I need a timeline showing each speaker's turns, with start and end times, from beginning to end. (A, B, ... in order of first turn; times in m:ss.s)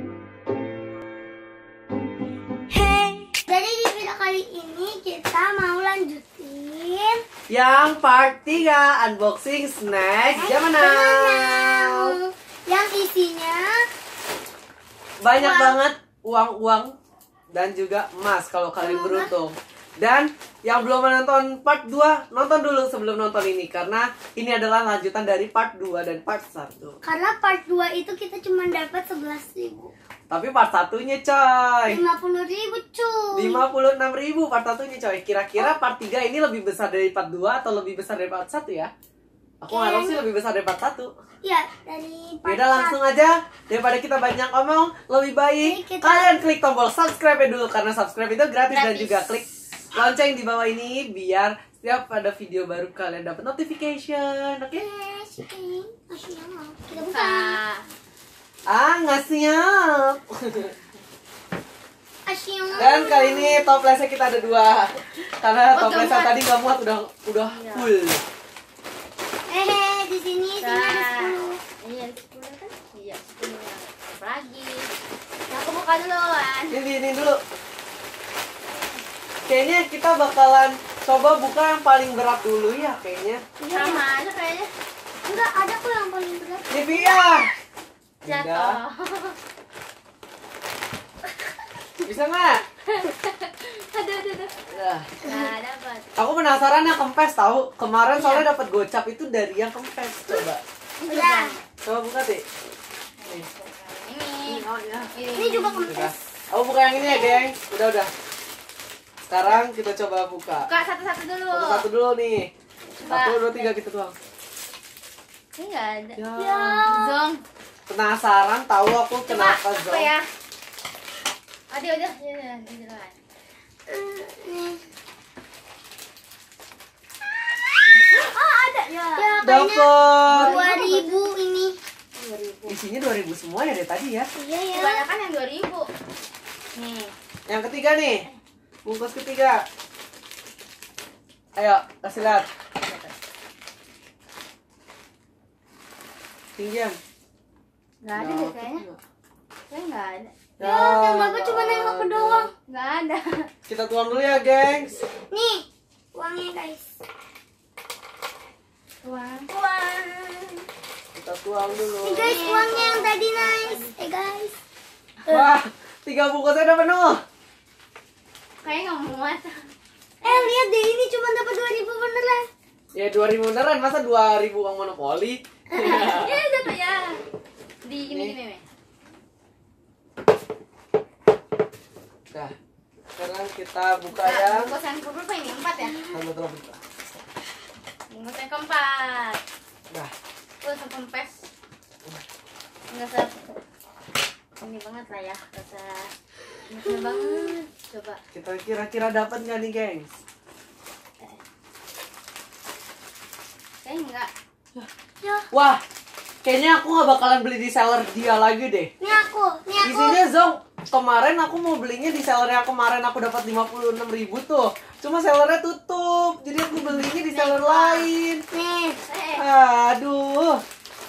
0:02.7-0:07.2 A
0:07.5-0:12.2 B
0:10.4-0:13.7 A
0:15.2-0:16.9 B
0:15.4-0:15.8 A
0:17.5-0:27.0 B
0:18.8-0:19.3 A
0:27.0-0:29.9 A
0:30.3-0:32.0 B
0:31.9-0:33.6 A
0:33.4-0:38.9 B
0:39.6-0:41.1 B
0:39.7-0:40.3 A
0:41.4-0:43.0 A
0:42.5-0:49.4 B
0:45.6-0:46.4 A
0:48.8-0:49.1 C
0:49.9-0:54.8 B
0:54.8-0:57.6 A
0:57.0-0:57.8 C
0:58.7-1:00.7 B
1:02.3-1:03.8 A
1:02.7-1:03.2 C
1:02.8-1:08.2 B
1:05.7-1:06.4 C
1:07.5-1:07.9 C
1:09.5-1:11.6 A
1:10.6-1:14.9 C
1:15.5-1:16.8 C
1:16.7-1:17.4 B
1:19.5-1:23.4 B
1:23.6-1:24.0 A
1:23.7-1:24.7 C
1:25.2-1:27.5 A
1:26.7-1:27.5 B
1:28.2-1:28.8 B
1:28.2-1:29.4 C
1:32.0-1:32.6 B
1:32.9-1:34.7 C
1:34.7-1:35.1 B
1:35.2-1:36.1 C
1:36.2-1:40.6 B
1:38.1-1:38.5 C
1:41.0-1:41.6 C
1:41.1-1:41.6 A
1:41.8-1:42.4 B
1:43.2-1:46.0 C
1:44.5-1:44.9 B
1:45.3-1:46.1 A
1:45.9-1:48.1 B
1:47.0-1:47.4 A
1:49.3-1:50.7 B
1:50.6-1:51.9 C
1:51.5-1:52.5 B
1:53.0-1:53.7 C
1:53.0-1:54.2 B
1:55.6-1:57.4 C
1:56.2-1:56.9 B
1:56.4-1:57.2 A
1:57.9-2:00.1 B
1:59.3-2:00.3 C
2:01.7-2:03.2 C
2:03.9-2:04.8 A
2:08.0-2:09.4 C
2:09.2-2:11.7 A
2:09.4-2:10.6 B
2:10.3-2:11.3 C
2:12.2-2:12.8 C
2:12.7-2:14.3 B
2:14.4-2:15.0 A
2:14.7-2:15.9 C
2:16.8-2:17.1 C
2:17.5-2:18.3 B
2:18.8-2:19.6 B
2:21.6-2:22.5 B
2:22.8-2:23.1 C
2:26.6-2:27.0 B
2:28.0-2:28.9 C
2:28.2-2:29.0 B
2:29.7-2:30.3 C
2:30.6-2:32.5 B
2:30.6-2:32.5 A
2:32.6-2:33.5 C
2:33.7-2:35.0 B
2:35.3-2:37.0 A
2:39.0-2:40.6 C
2:41.2-2:42.4 B
2:42.0-2:44.6 A
2:42.2-2:43.9 C
2:45.3-2:47.2 B
2:48.6-2:49.6 C
2:50.2-2:50.5 C
2:50.2-2:52.5 A
2:53.0-2:56.4 B
2:55.8-2:57.2 C
2:57.8-2:58.6 C
2:58.1-2:58.4 B
3:03.2-3:04.7 B
3:04.1-3:06.1 C
3:05.8-3:06.1 A
3:06.1-3:06.8 B
3:08.1-3:09.4 C
3:10.6-3:11.4 C
3:12.9-3:13.4 C
3:14.6-3:16.1 C
3:16.7-3:18.2 C
3:16.8-3:17.5 A
3:18.3-3:20.1 B
3:23.8-3:24.3 C
3:25.2-3:25.5 A
3:25.5-3:25.8 B
3:26.4-3:28.9 B
3:29.0-3:30.2 A
3:29.8-3:38.4 B
3:37.0-3:38.1 C
3:38.5-3:39.0 A
3:39.1-3:39.4 C
3:39.4-3:40.6 B